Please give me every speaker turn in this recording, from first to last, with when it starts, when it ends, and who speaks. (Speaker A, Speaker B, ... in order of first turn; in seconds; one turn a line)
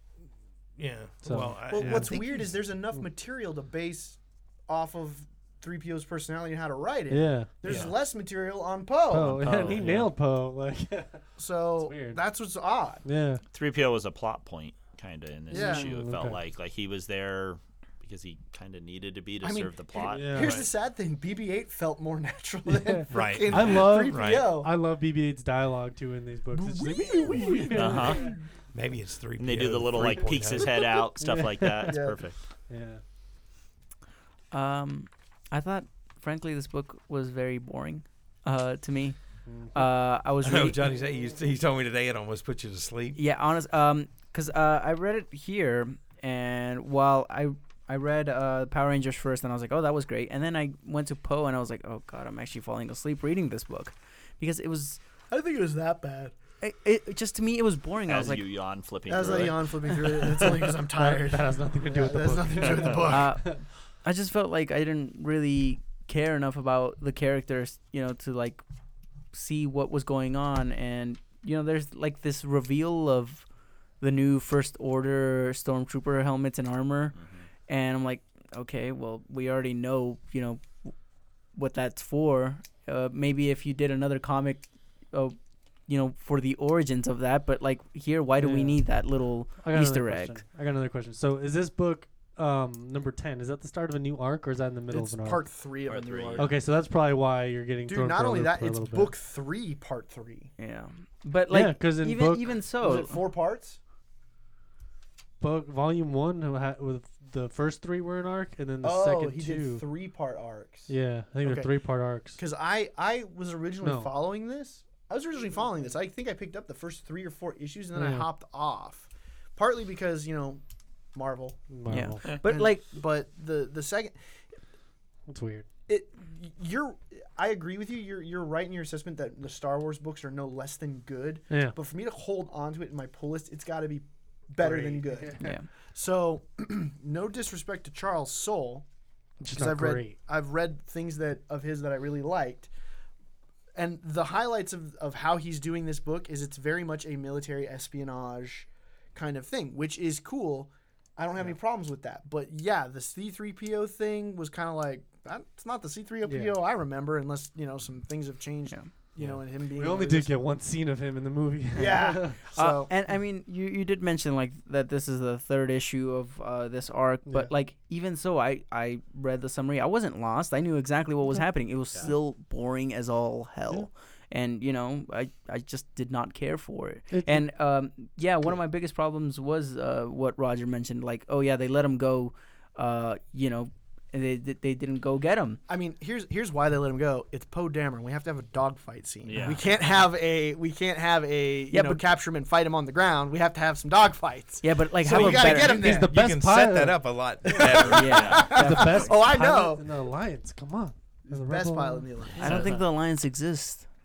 Speaker A: 0.8-2.4
Speaker B: 1.2-2.2
Speaker C: 1.7-9.9
Speaker B: 7.1-7.8
Speaker D: 7.6-7.9
Speaker B: 9.1-12.2
Speaker D: 9.3-10.1
Speaker C: 11.4-13.0
Speaker B: 13.0-13.4
Speaker D: 13.5-20.4
Speaker C: 15.5-15.9
Speaker B: 15.5-16.4
Speaker C: 19.4-24.7
Speaker B: 20.1-20.6
Speaker A: 20.3-20.7
Speaker B: 22.7-28.3
Speaker A: 23.1-24.5
Speaker C: 26.5-28.4
Speaker D: 27.7-28.3
Speaker A: 28.7-30.7
Speaker D: 29.4-32.4
Speaker B: 31.2-31.9
Speaker C: 31.9-32.2
Speaker B: 32.7-33.0
Speaker E: 34.5-39.2
Speaker B: 39.5-39.8
Speaker E: 39.7-40.8
Speaker A: 40.4-43.2
Speaker E: 43.1-55.0
Speaker C: 55.3-56.3
Speaker E: 56.6-58.4
Speaker D: 58.0-60.2
Speaker C: 59.1-63.3
Speaker B: 60.9-63.6
Speaker D: 62.6-63.0
Speaker E: 63.0-68.6
Speaker E: 69.3-73.4
Speaker E: 74.0-77.2
Speaker D: 77.2-77.5
Speaker E: 77.7-80.9
Speaker E: 81.5-85.3
Speaker E: 85.9-90.4
Speaker B: 88.4-88.8
Speaker B: 89.6-95.4
Speaker C: 94.9-96.6
Speaker D: 95.8-96.5
Speaker B: 96.4-99.1
Speaker C: 97.8-100.5
Speaker E: 100.6-103.2
Speaker B: 101.5-102.6
Speaker C: 102.8-103.8
Speaker B: 105.4-109.8
Speaker C: 108.8-110.9
Speaker B: 110.9-112.4
Speaker C: 111.4-111.7
Speaker C: 112.3-120.6
Speaker B: 113.8-114.1
Speaker B: 117.9-118.3
Speaker C: 121.1-121.7
Speaker B: 121.7-122.4
Speaker E: 121.9-122.8
Speaker C: 122.4-124.1
Speaker B: 125.3-125.7
Speaker C: 125.9-138.8
Speaker B: 131.5-131.8
Speaker B: 134.6-135.5
Speaker E: 135.4-135.7
Speaker B: 139.4-140.2
Speaker C: 139.5-142.7
Speaker C: 143.7-160.3
Speaker B: 156.2-156.6
Speaker B: 159.3-162.5
Speaker C: 161.7-162.9
Speaker E: 162.5-185.6
Speaker B: 177.1-177.5
Speaker C: 185.7-196.2
Speaker D: 189.2-189.6
Speaker E: 191.7-192.0
Speaker E: 194.6-196.0
Speaker A: 195.1-198.3
Speaker B: 195.2-197.8
Speaker C: 197.4-199.9
Speaker E: 197.6-199.5
Speaker D: 198.1-198.5
Speaker B: 198.5-202.8
Speaker C: 201.3-202.7
Speaker D: 202.3-202.7
Speaker E: 202.4-203.8